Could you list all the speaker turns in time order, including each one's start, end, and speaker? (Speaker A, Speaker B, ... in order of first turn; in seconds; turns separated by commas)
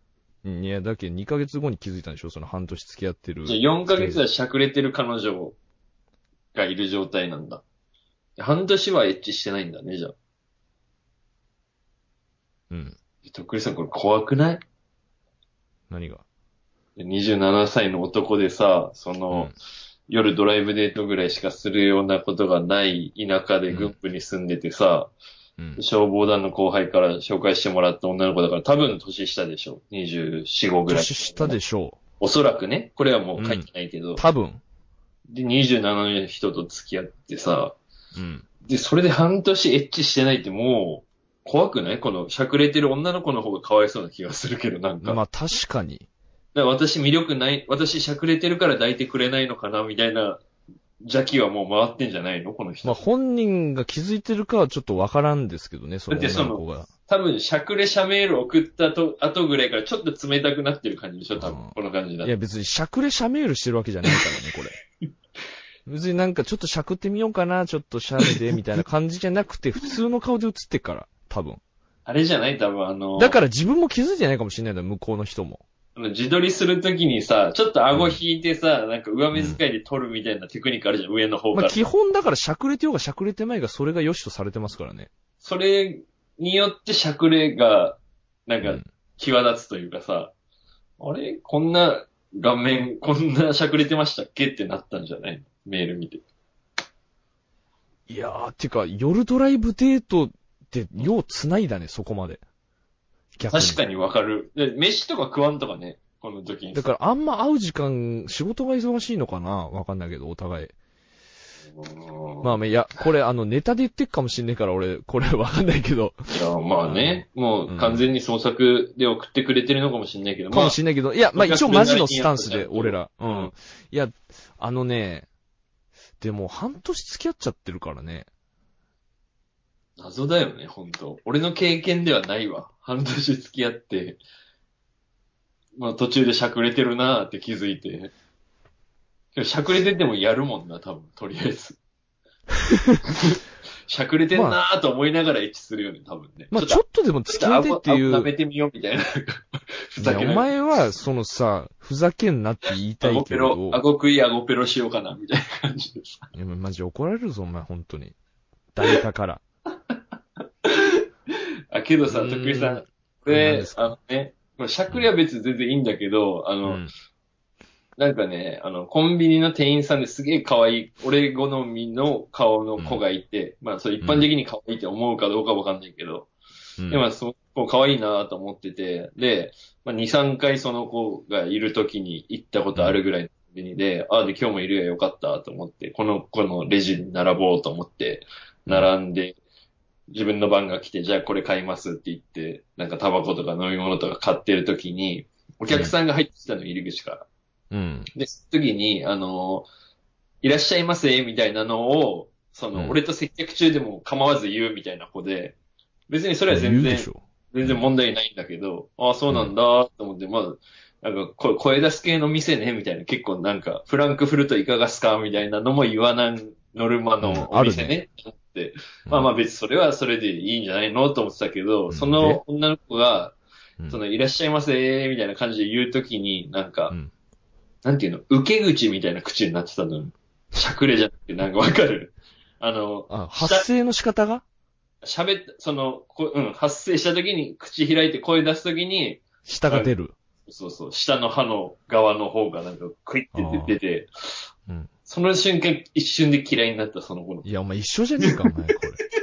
Speaker A: 0.4-4.2, Speaker B: 3.5-5.6, Speaker B: 6.5-7.6, Speaker B: 8.4-10.2, Speaker A: 12.7-13.0, Speaker B: 13.2-14.6, Speaker A: 15.9-16.2, Speaker B: 17.0-19.5, Speaker B: 20.1-25.1, Speaker A: 23.7-23.9, Speaker B: 25.8-31.6, Speaker A: 30.9-32.0, Speaker B: 32.2-34.2, Speaker A: 33.4-33.7, Speaker A: 34.2-34.6, Speaker B: 35.3-37.8, Speaker A: 38.2-38.5, Speaker B: 38.6-45.2, Speaker A: 45.0-46.1, Speaker B: 46.5-50.4, Speaker B: 51.0-53.0, Speaker A: 52.8-56.9, Speaker B: 56.1-62.3, Speaker A: 61.4-64.8, Speaker A: 65.9-71.6, Speaker B: 72.1-73.4, Speaker A: 73.2-75.6, Speaker B: 76.0-81.8, Speaker A: 77.9-78.2, Speaker A: 79.3-79.6, Speaker A: 81.5-85.1, Speaker B: 85.4-90.3, Speaker B: 91.0-96.2, Speaker A: 98.1-102.4, Speaker A: 103.4-103.8, Speaker B: 103.5-106.9, Speaker A: 106.7-110.7, Speaker B: 111.8-112.5, Speaker A: 112.4-116.3, Speaker B: 116.3-120.8, Speaker A: 116.8-118.0, Speaker A: 120.5-125.3, Speaker B: 121.3-123.5, Speaker A: 126.2-128.3, Speaker B: 130.0-134.2, Speaker B: 135.8-138.1, Speaker B: 139.3-141.8, Speaker A: 142.7-143.0, Speaker B: 143.1-150.5, Speaker A: 144.3-144.6, Speaker A: 146.5-148.3, Speaker A: 150.0-153.8, Speaker B: 153.0-156.3, Speaker A: 156.3-158.2, Speaker A: 158.8-159.4, Speaker B: 160.6-161.0, Speaker B: 161.7-166.8, Speaker A: 162.1-163.9, Speaker A: 166.7-166.9, Speaker B: 168.0-176.3, Speaker A: 174.0-174.3, Speaker B: 176.9-189.4, Speaker B: 190.1-197.3, Speaker A: 197.7-198.1, Speaker B: 198.1-199.7, Speaker B: 200.4-205.6, Speaker B: 206.1-223.4, Speaker A: 206.5-207.8, Speaker A: 217.2-218.0, Speaker A: 221.9-222.4, Speaker B: 223.9-226.9, Speaker B: 227.8-233.7, Speaker A: 233.1-234.4, Speaker B: 235.0-239.9, Speaker A: 239.5-240.1, Speaker B: 240.5-244.4, Speaker A: 243.3-243.8, Speaker B: 245.1-247.5, Speaker A: 247.4-249.0